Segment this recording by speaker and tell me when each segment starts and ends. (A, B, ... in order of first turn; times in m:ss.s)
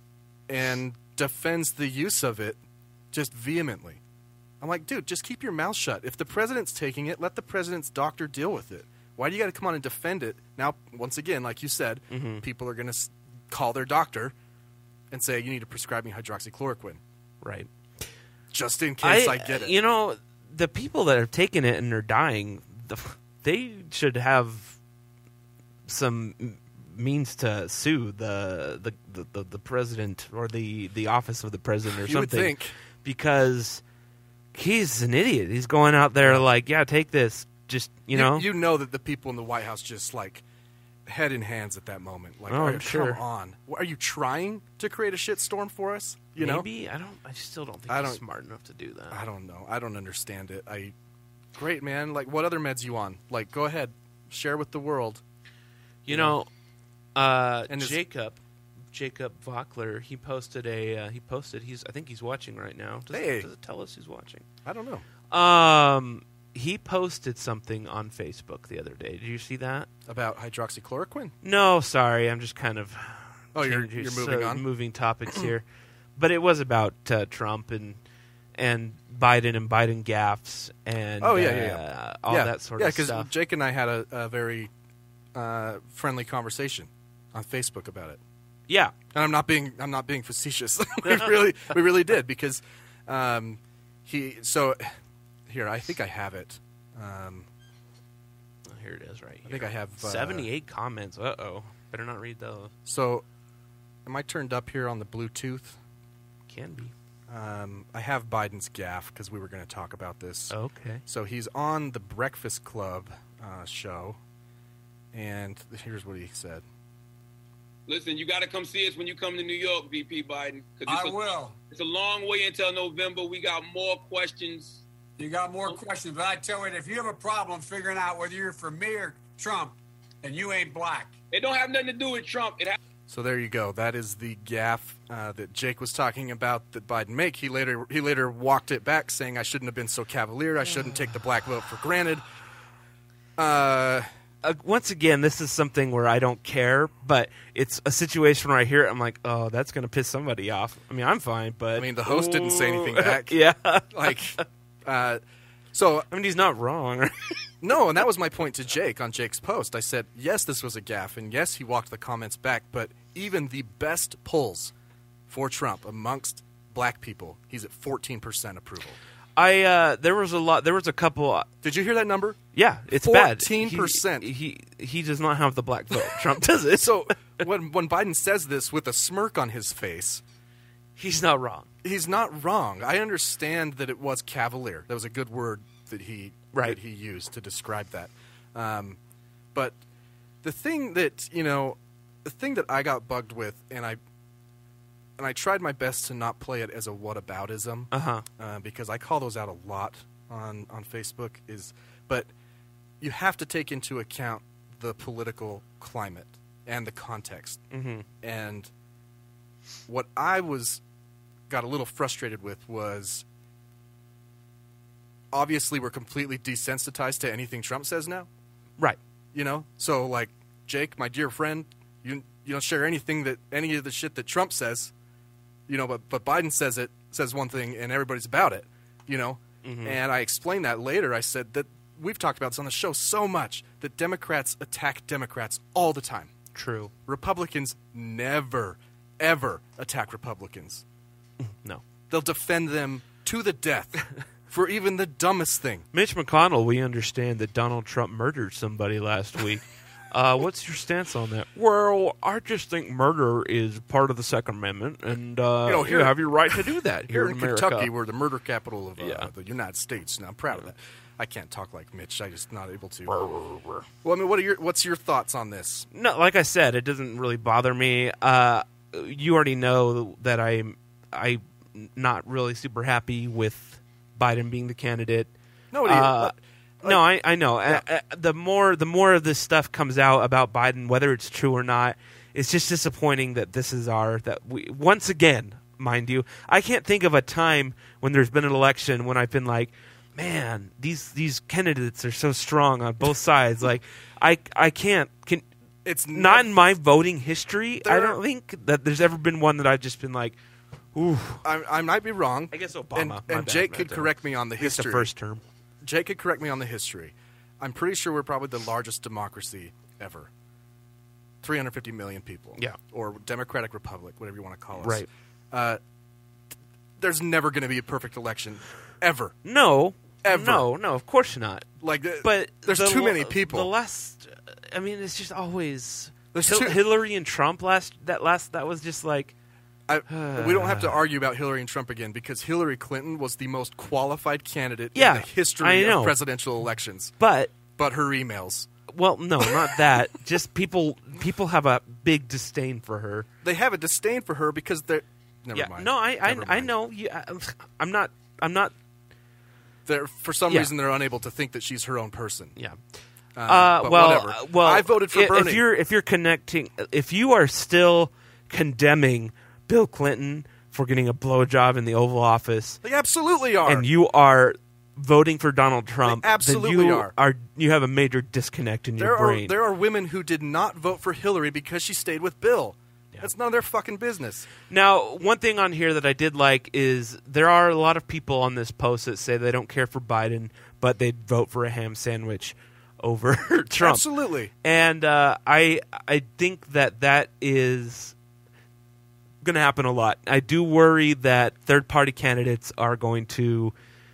0:00.5-0:02.6 A
0:03.1-0:04.0 A
0:04.6-0:14.3 A
0:12.1-0:12.4 B
0:15.1-0:17.0 A
0:17.4-0:17.7 B
0:18.5-0:19.8 A
0:19.0-0:24.8 B
0:25.9-0:33.8 B
0:31.9-0:32.7 A
0:34.5-0:38.5 B
0:38.1-0:40.4 A
0:41.0-0:46.7 A
0:42.5-0:43.2 B
0:46.4-0:49.2 B
0:47.9-0:48.2 A
0:49.1-0:50.9 A
0:51.5-0:55.2 A
0:56.0-0:56.5 B
0:56.1-0:56.4 A
0:57.1-0:58.4 B
0:57.7-0:58.0 A
0:58.9-1:04.4 B
1:03.1-1:03.5 A
1:04.6-1:05.0 A
1:05.3-1:09.9 B
1:10.1-1:11.3 A
1:11.4-1:15.6 B
1:13.5-1:14.6 A
1:16.2-1:18.0 B
1:18.6-1:23.3 B
1:21.2-1:24.7 A
1:25.3-1:28.2 A
1:28.7-1:28.9 B
1:29.1-1:34.9 A
1:31.0-1:31.3 B
1:35.5-1:37.5 A
1:38.7-1:42.7 B
1:39.4-1:40.5 A
1:42.8-1:43.2 A
1:44.0-1:45.8 A
1:46.5-1:46.9 B
1:47.3-1:50.5 A
1:50.5-1:51.0 B
1:51.0-1:54.2 A
1:55.1-1:56.6 A
1:57.9-2:01.2 C
2:00.8-2:01.6 D
2:01.7-2:04.8 C
2:05.2-2:11.2 D
2:11.3-2:12.8 C
2:13.1-2:22.2 A
2:23.4-2:24.1 A
2:24.4-2:34.4 B
2:31.7-2:33.4 A
2:33.9-2:35.2 A
2:35.7-2:36.1 A
2:36.1-2:37.3 B
2:37.6-2:44.7 A
2:45.3-2:49.0 A
2:49.4-2:51.5 B
2:51.6-2:52.4 A
2:52.5-2:57.3 B
2:52.9-2:54.3 A
2:56.8-3:00.2 A
3:01.0-3:01.7 B
3:01.8-3:09.0 A
3:06.5-3:06.8 B
3:10.4-3:14.0 A
3:15.2-3:22.3 A
3:17.9-3:18.2 B
3:23.0-3:27.6 A
3:27.7-3:28.0 B
3:28.2-3:28.7 A
3:29.9-3:30.8 A
3:31.5-3:33.2 A
3:35.3-3:38.3 A
3:39.3-3:44.9 A
3:45.7-3:56.3 A
3:49.6-3:50.0 B
3:56.5-3:56.9 B
3:57.0-4:00.8 A
4:01.4-4:01.8 B
4:02.1-4:05.9 A
4:05.9-4:17.9 B
4:15.6-4:23.2 A
4:19.0-4:19.3 B
4:23.1-4:23.8 B
4:24.0-4:25.9 A
4:25.9-4:35.3 B
4:35.7-4:37.0 A
4:35.8-4:55.4 B
4:55.8-4:56.5 A
4:56.1-5:00.4 B
4:57.8-4:58.2 A
5:00.9-5:01.4 B
5:01.4-5:05.1 A
5:02.5-5:05.4 B
5:05.8-5:10.3 A
5:11.4-5:15.8 A
5:14.8-5:15.1 B
5:17.0-5:19.4 A
5:19.4-5:21.7 B
5:20.2-5:20.7 A
5:21.8-5:23.7 A
5:22.2-5:29.3 B
5:26.3-5:26.8 A
5:29.9-5:37.1 A
5:30.1-5:31.0 B
5:34.9-5:36.2 B
5:37.2-5:37.5 B
5:37.7-5:38.7 A
5:38.9-5:43.3 B
5:39.4-5:39.8 A
5:43.4-5:46.7 A
5:45.5-5:48.7 B
5:49.8-5:52.5 A
5:53.4-5:55.6 A
5:53.5-6:02.8 B
6:02.8-6:03.9 A
6:03.6-6:09.5 B
6:06.0-6:07.1 A
6:09.0-6:14.5 A
6:14.7-6:24.0 B
6:23.8-6:24.5 A
6:24.6-6:28.1 B
6:29.4-6:33.7 B